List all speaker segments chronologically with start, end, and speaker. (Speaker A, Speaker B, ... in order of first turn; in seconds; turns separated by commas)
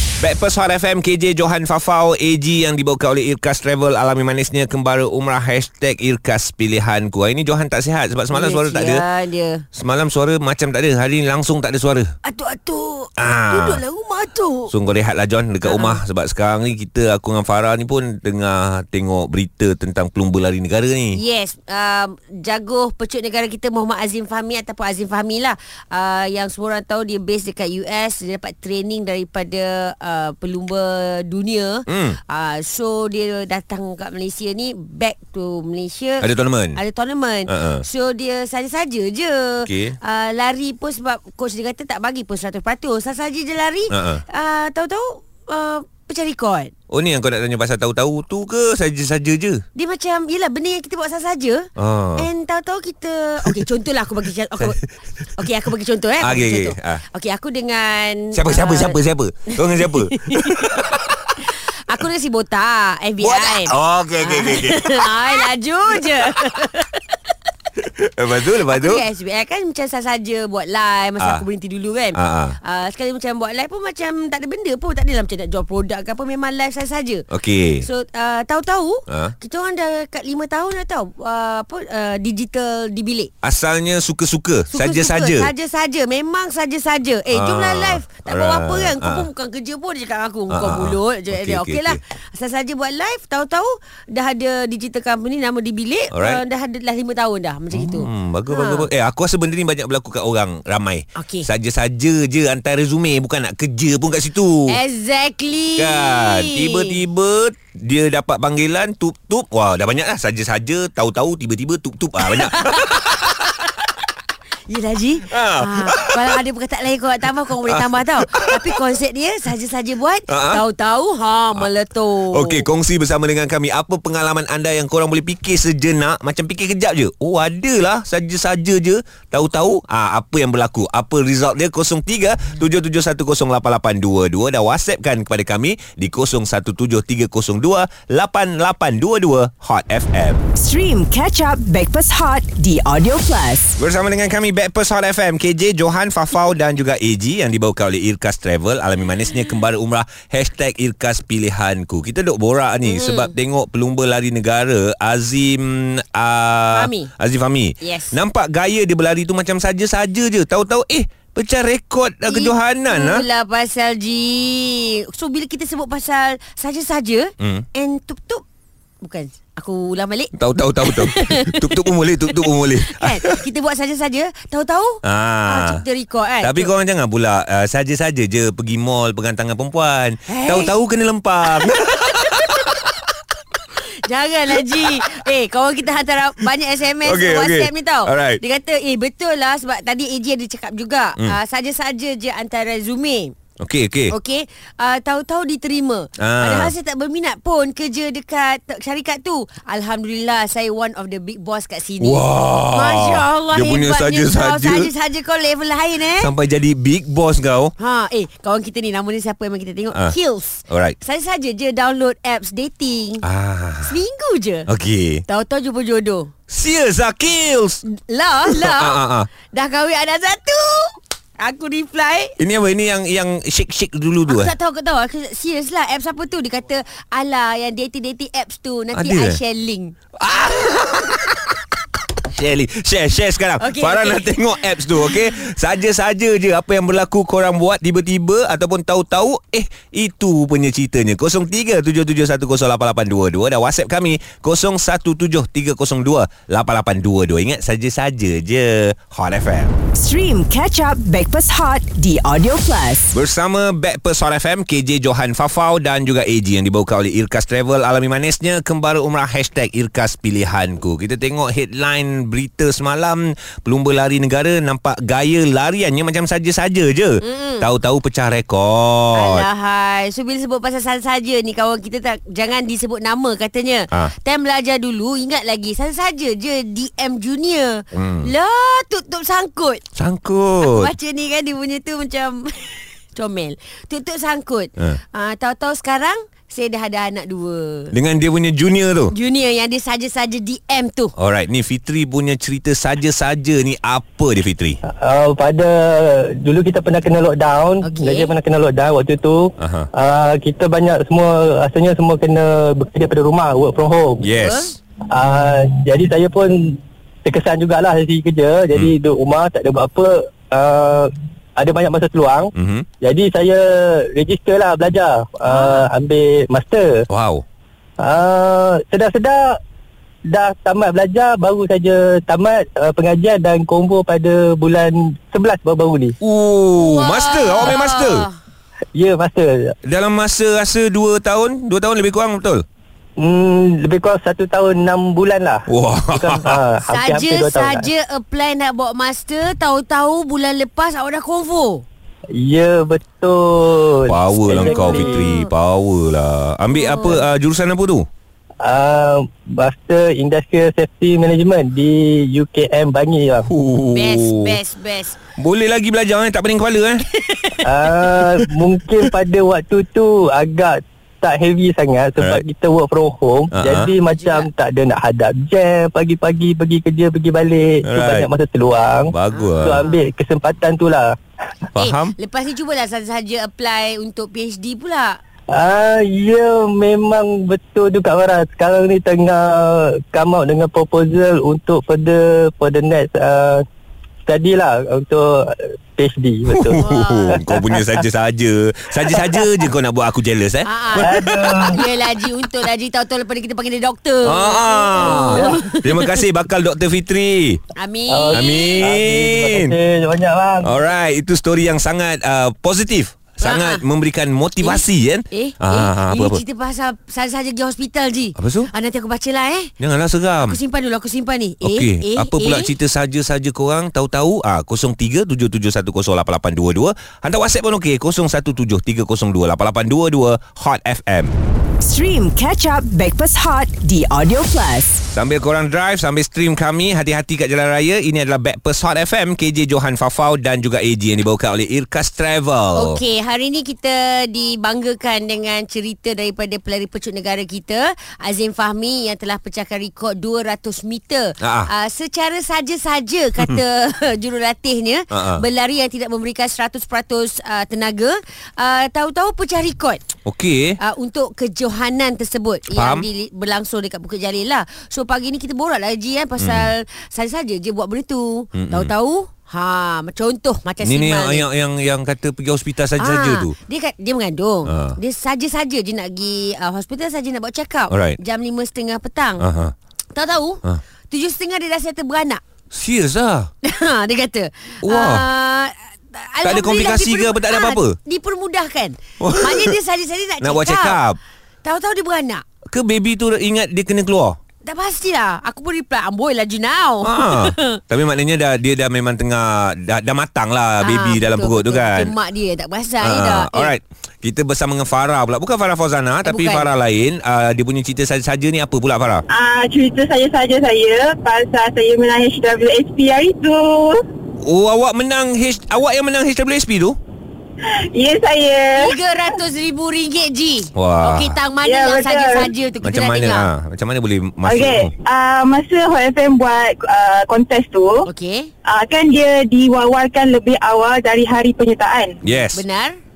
Speaker A: 0.2-9.0, Speaker B: 8.3-9.6, Speaker A: 9.8-12.1, Speaker B: 12.2-14.7, Speaker A: 13.2-13.8, Speaker A: 14.7-21.2, Speaker B: 15.6-16.0, Speaker B: 21.1-46.7, Speaker A: 31.9-32.2, Speaker A: 36.2-36.8, Speaker A: 37.5-37.8, Speaker A: 39.6-40.0, Speaker A: 43.9-44.2, Speaker A: 46.9-49.6, Speaker B: 49.8-54.8, Speaker A: 51.8-52.3, Speaker B: 55.4-67.0, Speaker A: 56.2-57.0, Speaker A: 58.3-61.2, Speaker A: 63.2-66.3, Speaker A: 67.8-69.0, Speaker B: 68.6-77.3, Speaker A: 72.1-72.6, Speaker A: 77.3-77.9, Speaker B: 77.8-83.3, Speaker A: 83.4-85.5, Speaker B: 84.7-98.9, Speaker A: 87.3-89.3, Speaker A: 90.5-92.0, Speaker A: 96.1-96.4, Speaker A: 97.7-104.8, Speaker B: 101.2-101.5, Speaker B: 104.7-107.0, Speaker A: 105.8-113.5, Speaker B: 112.2-113.5, Speaker B: 114.7-122.7, Speaker A: 115.3-116.4, Speaker A: 117.7-118.7, Speaker A: 120.3-120.6, Speaker A: 122.3-140.4, Speaker C: 140.5-143.8, Speaker A: 143.8-163.2, Speaker B: 152.8-153.3, Speaker B: 156.7-157.1, Speaker B: 157.8-158.2, Speaker B: 162.3-168.4, Speaker A: 167.4-167.7, Speaker B: 169.0-176.7, Speaker A: 170.3-173.4, Speaker A: 175.0-175.8, Speaker A: 176.4-182.7, Speaker B: 180.3-180.8, Speaker B: 184.0-193.3, Speaker A: 187.0-188.4, Speaker A: 193.6-194.1, Speaker B: 194.1-206.3, Speaker A: 196.2-196.7, Speaker A: 202.0-204.9, Speaker A: 206.2-207.7, Speaker B: 207.8-213.2, Speaker A: 210.7-210.9, Speaker A: 213.2-214.0, Speaker B: 213.8-214.7, Speaker A: 214.7-215.2, Speaker B: 215.3-216.3, Speaker A: 216.5-217.8, Speaker B: 217.9-222.4, Speaker A: 218.5-219.3, Speaker A: 222.4-224.5, Speaker B: 224.3-229.9, Speaker A: 228.9-229.4, Speaker A: 230.2-231.3, Speaker A: 232.2-249.7, Speaker B: 233.6-235.2, Speaker C: 249.9-253.1, Speaker A: 253.1-269.5, Speaker B: 267.2-267.7, Speaker B: 269.1-279.8, Speaker A: 277.9-278.3, Speaker A: 279.9-280.9, Speaker B: 280.6-287.9, Speaker A: 287.9-289.1, Speaker B: 289.1-291.1, Speaker A: 291.2-294.8, Speaker D: 294.9-304.3, Speaker B: 297.8-298.4, Speaker A: 299.6-299.9, Speaker A: 304.2-304.7, Speaker B: 304.4-304.8, Speaker D: 305.1-317.1, Speaker A: 312.6-312.9, Speaker A: 317.1-317.4, Speaker D: 318.0-319.6, Speaker D: 320.3-326.1, Speaker A: 326.2-328.3, Speaker B: 326.7-328.3, Speaker D: 328.9-329.7, Speaker A: 329.9-332.6, Speaker D: 333.2-337.9, Speaker A: 335.7-336.6, Speaker B: 336.9-341.9, Speaker D: 342.3-345.3, Speaker A: 344.1-348.1, Speaker B: 344.5-345.5, Speaker B: 346.7-347.2, Speaker D: 348.6-353.5, Speaker A: 353.5-354.6, Speaker B: 353.9-355.2, Speaker A: 355.4-357.0, Speaker B: 357.2-357.8, Speaker D: 357.6-371.1, Speaker A: 363.5-363.9, Speaker B: 364.2-364.5, Speaker A: 367.9-368.3, Speaker A: 369.1-369.9, Speaker B: 369.3-370.0, Speaker A: 371.8-372.1, Speaker B: 371.8-375.2, Speaker D: 375.5-383.6, Speaker D: 384.2-388.0, Speaker A: 386.5-391.6, Speaker B: 386.8-387.4, Speaker D: 389.1-389.5, Speaker B: 390.6-396.3, Speaker D: 391.0-391.8, Speaker A: 394.2-397.6, Speaker D: 394.9-395.6, Speaker B: 397.8-398.8, Speaker D: 398.1-400.8, Speaker A: 398.3-399.7, Speaker A: 400.6-406.4, Speaker B: 403.4-403.9, Speaker B: 404.6-409.7, Speaker A: 408.4-408.7, Speaker A: 409.8-410.6, Speaker B: 410.4-412.7, Speaker A: 411.6-421.4, Speaker C: 421.8-425.0, Speaker A: 425.1-433.0, Speaker B: 432.8-450.0, Speaker A: 441.4-441.7, Speaker A: 445.1-445.4, Speaker A: 450.2-450.8, Speaker B: 450.8-461.5, Speaker A: 452.7-453.1, Speaker A: 456.4-456.7, Speaker A: 458.6-458.9, Speaker A: 460.8-463.6, Speaker B: 463.0-469.4, Speaker A: 464.7-465.0, Speaker A: 467.9-468.2, Speaker A: 469.4-469.7, Speaker B: 470.1-472.4, Speaker A: 472.7-473.5, Speaker B: 473.6-481.0, Speaker A: 474.8-475.2, Speaker A: 476.4-478.0, Speaker A: 479.2-479.8, Speaker A: 480.4-481.2, Speaker B: 481.6-482.4, Speaker A: 482.7-484.4, Speaker B: 484.6-487.8, Speaker A: 487.0-492.1, Speaker B: 490.8-493.7, Speaker A: 493.0-499.2, Speaker B: 496.2-496.7, Speaker E: 499.3-504.0, Speaker A: 504.4-507.0, Speaker E: 507.6-509.0, Speaker B: 508.8-513.5, Speaker A: 510.8-511.4, Speaker E: 511.6-512.5, Speaker A: 512.8-514.9, Speaker E: 514.5-518.1, Speaker B: 518.1-518.5, Speaker E: 518.6-522.1, Speaker A: 522.2-522.6, Speaker B: 522.5-523.0